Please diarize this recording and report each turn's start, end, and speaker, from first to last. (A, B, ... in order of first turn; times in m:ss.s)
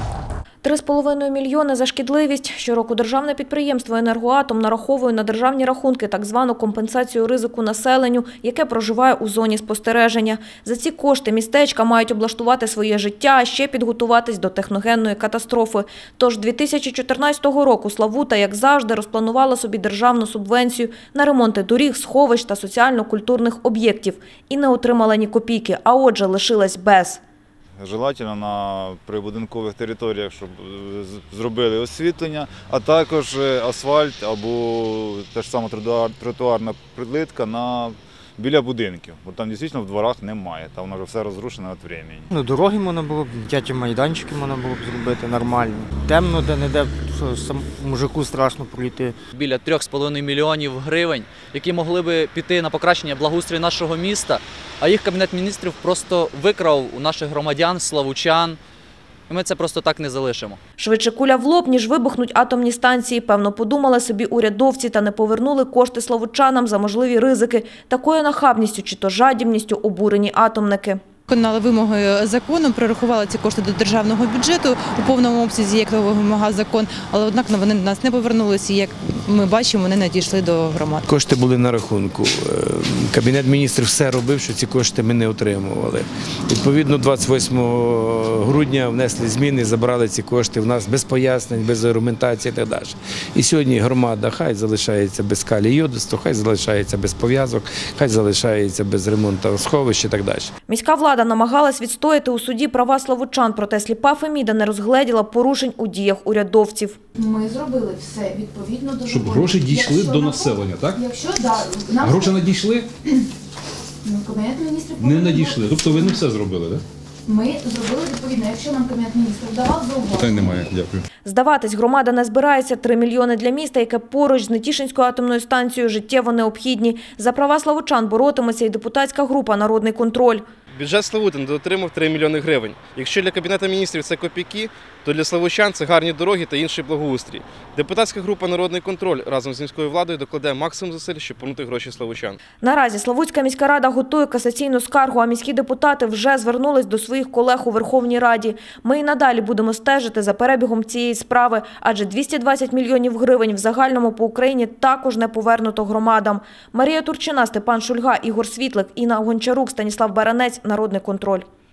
0:00.6-0:27.2 A
0:27.8-0:42.3 B
0:42.4-0:49.1 C
0:49.3-0:58.6 D
0:59.3-1:00.6 D
1:00.8-1:11.0 A
1:11.3-1:21.1 E
1:21.0-1:40.5 F
1:40.7-1:47.0 A
1:47.2-1:52.4 G
1:49.0-1:51.0 H
1:52.0-1:52.9 H
1:54.0-1:56.0 G
1:55.0-1:56.8 H
1:57.3-2:00.5 G
2:00.1-2:01.0 H
2:01.2-2:10.4 A
2:10.7-2:22.4 I
2:22.6-2:41.4 A